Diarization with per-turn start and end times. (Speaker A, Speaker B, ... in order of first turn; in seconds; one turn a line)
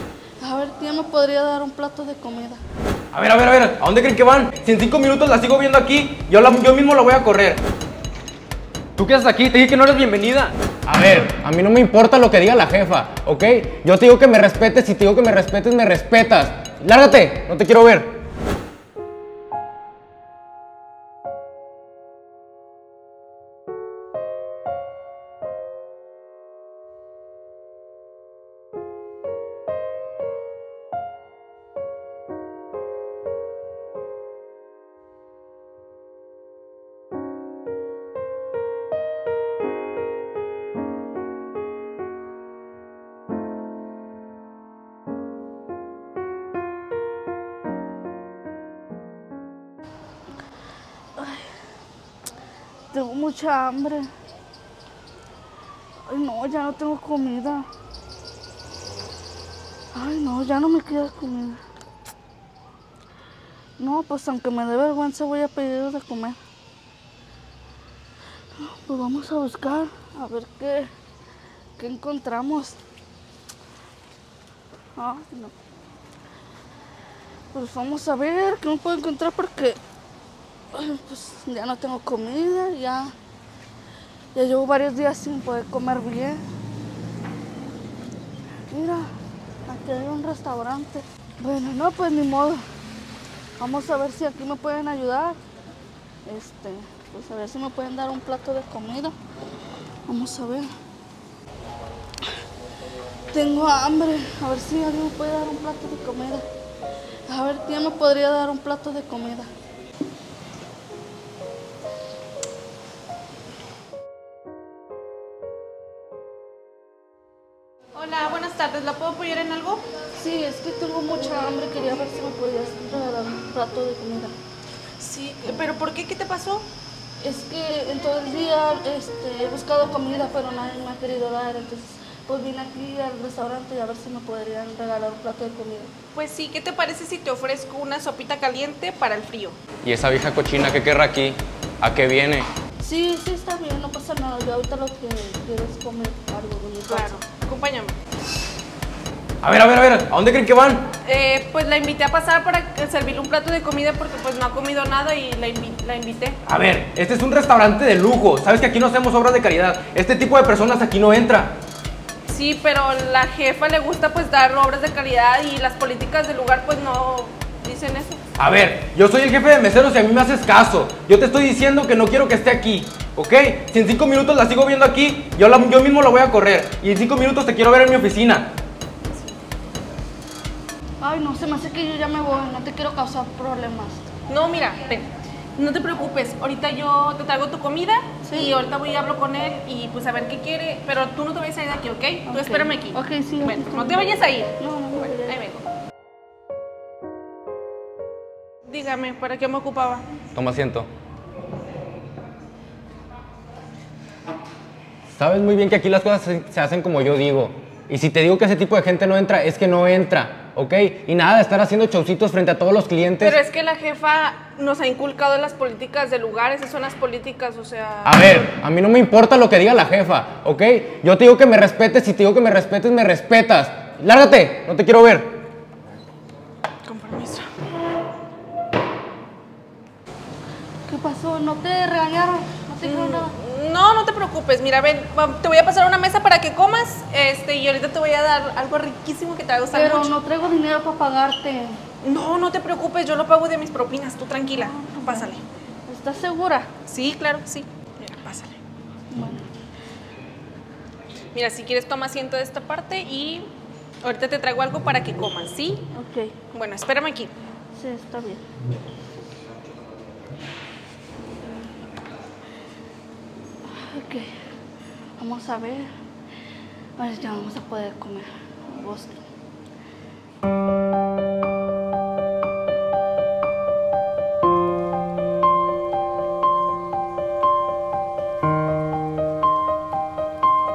Speaker A: 0.4-2.6
Speaker B: 3.1-7.6
Speaker B: 9.0-10.5
Speaker C: 10.9-18.1
Speaker A: 51.2-51.5
Speaker A: 52.9-54.1
Speaker A: 56.1-57.7
Speaker A: 59.9-61.6
Speaker A: 63.8-66.4
Speaker A: 68.5-70.9
Speaker A: 71.8-72.8
Speaker A: 75.0-75.5
Speaker A: 77.5-79.8
Speaker A: 80.7-83.1
Speaker A: 84.3-86.4
Speaker A: 88.7-89.1
Speaker A: 89.7-92.6
Speaker A: 93.6-95.4
Speaker A: 96.2-99.1
Speaker A: 100.1-100.7
Speaker A: 103.3-106.4
Speaker A: 107.3-109.5
Speaker D: 118.0-119.8
Speaker A: 120.1-124.3
Speaker D: 125.0-126.6
Speaker A: 127.2-135.9
Speaker D: 136.1-139.6
Speaker C: 139.8-142.5
Speaker A: 142.8-147.2
Speaker D: 146.9-147.9
Speaker B: 149.4-150.8
Speaker D: 151.0-156.4
Speaker B: 156.5-161.5
Speaker D: 162.3-168.2
Speaker B: 168.4-178.4
Speaker A: 181.0-184.1
Speaker D: 184.3-195.7
Speaker A: 188.2-188.6
Speaker A: 192.3-195.4
Speaker D: 198.7-200.0
Speaker C: 200.3-200.9
Speaker C: 205.2-213.4
Speaker D: 213.2-218.2
Speaker C: 218.0-225.3
Speaker D: 226.8-227.5
Speaker A: 230.9-233.3
Speaker D: 232.8-240.1
Speaker A: 239.7-241.8
Speaker D: 242.0-245.4
Speaker A: 244.5-245.3
Speaker A: 245.9-246.7
Speaker D: 246.8-248.6
Speaker A: 249.1-249.4
Speaker D: 251.3-253.4
Speaker D: 254.0-255.8
Speaker A: 255.9-256.4
Speaker D: 256.5-257.3
Speaker A: 257.7-258.4
Speaker A: 263.7-264.3
Speaker A: 265.2-265.9
Speaker A: 267.0-269.2